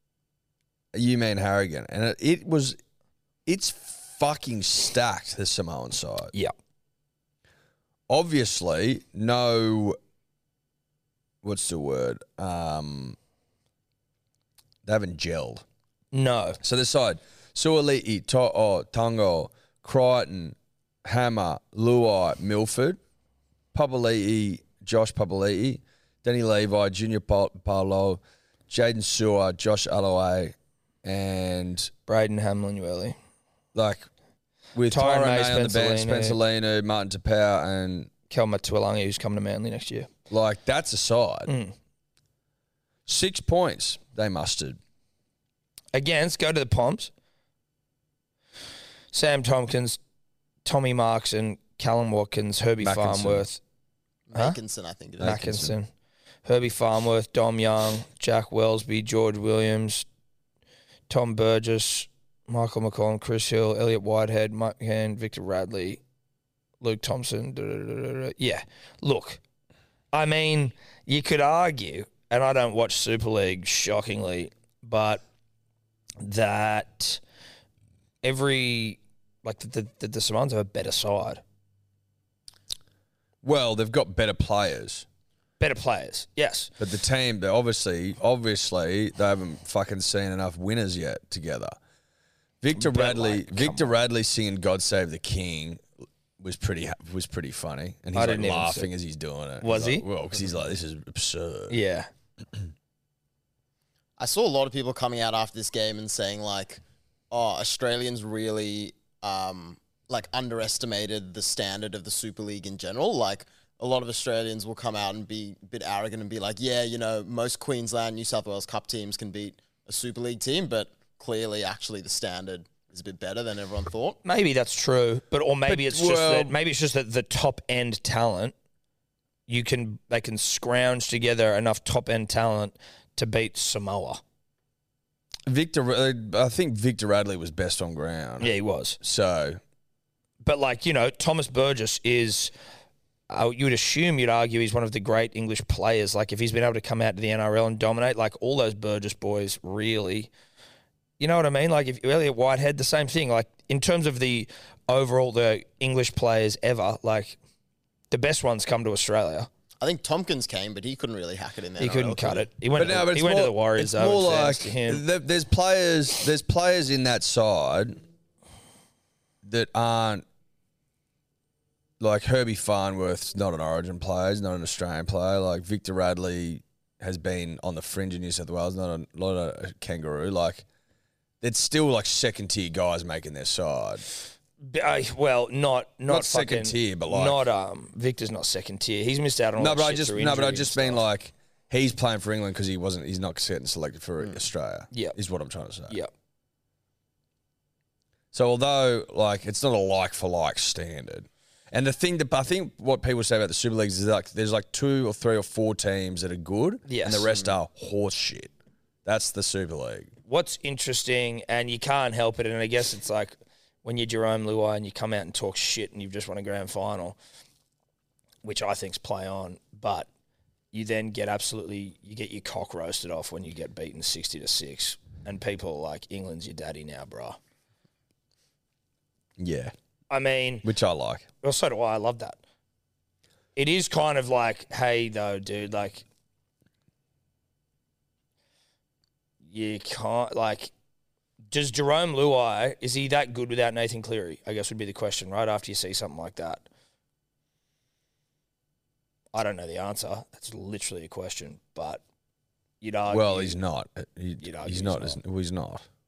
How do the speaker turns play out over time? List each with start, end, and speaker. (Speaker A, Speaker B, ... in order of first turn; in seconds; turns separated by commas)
Speaker A: 0.9-2.8, Speaker A: 3.5-6.3, Speaker A: 8.1-10.0, Speaker A: 11.4-13.2, Speaker A: 14.8-15.6, Speaker B: 16.1-16.6, Speaker A: 16.6-23.0, Speaker A: 23.7-31.9, Speaker B: 32.1-33.1, Speaker A: 33.7-34.1, Speaker A: 34.7-38.1, Speaker B: 34.9-36.4, Speaker B: 38.3-40.1, Speaker A: 40.3-41.5, Speaker B: 41.5-41.7, Speaker A: 43.0-44.8, Speaker B: 45.9-47.1, Speaker B: 49.1-50.0, Speaker B: 50.6-53.6, Speaker A: 52.8-53.5, Speaker C: 54.3-55.4, Speaker A: 55.2-55.8, Speaker B: 55.2-55.9, Speaker B: 56.4-60.0, Speaker B: 61.1-66.0, Speaker B: 66.8-69.4, Speaker B: 70.1-75.2, Speaker B: 76.2-77.2, Speaker B: 78.2-81.4, Speaker A: 83.4-85.0, Speaker B: 85.6-86.7, Speaker A: 86.8-91.8, Speaker A: 92.6-95.8, Speaker B: 92.7-93.9, Speaker A: 96.4-101.8, Speaker B: 98.1-98.9, Speaker B: 99.6-100.0, Speaker B: 101.7-102.1, Speaker C: 104.2-124.2, Speaker B: 124.2-128.5, Speaker A: 125.7-126.5, Speaker B: 129.5-134.2, Speaker A: 135.5-139.6, Speaker B: 138.4-139.0, Speaker B: 140.4-142.5, Speaker B: 143.3-150.3, Speaker B: 151.2-157.4, Speaker B: 158.1-159.5, Speaker C: 159.8-162.5, Speaker B: 161.8-165.0, Speaker A: 162.8-168.0, Speaker A: 169.4-170.2, Speaker A: 172.0-180.6, Speaker A: 181.4-184.0, Speaker B: 184.6-191.0, Speaker A: 186.1-187.4, Speaker A: 189.6-195.9, Speaker A: 198.3-208.5, Speaker B: 206.9-207.4, Speaker A: 209.0-210.1, Speaker B: 210.2-217.2, Speaker B: 218.4-220.1, Speaker B: 220.7-227.4, Speaker A: 229.4-229.7, Speaker B: 230.1-230.7, Speaker A: 230.6-231.2, Speaker B: 231.4-232.4, Speaker B: 233.5-236.0, Speaker B: 239.4-240.7, Speaker B: 241.5-246.6, Speaker B: 249.3-252.0, Speaker B: 252.8-253.6, Speaker A: 253.1-255.9, Speaker B: 254.4-255.2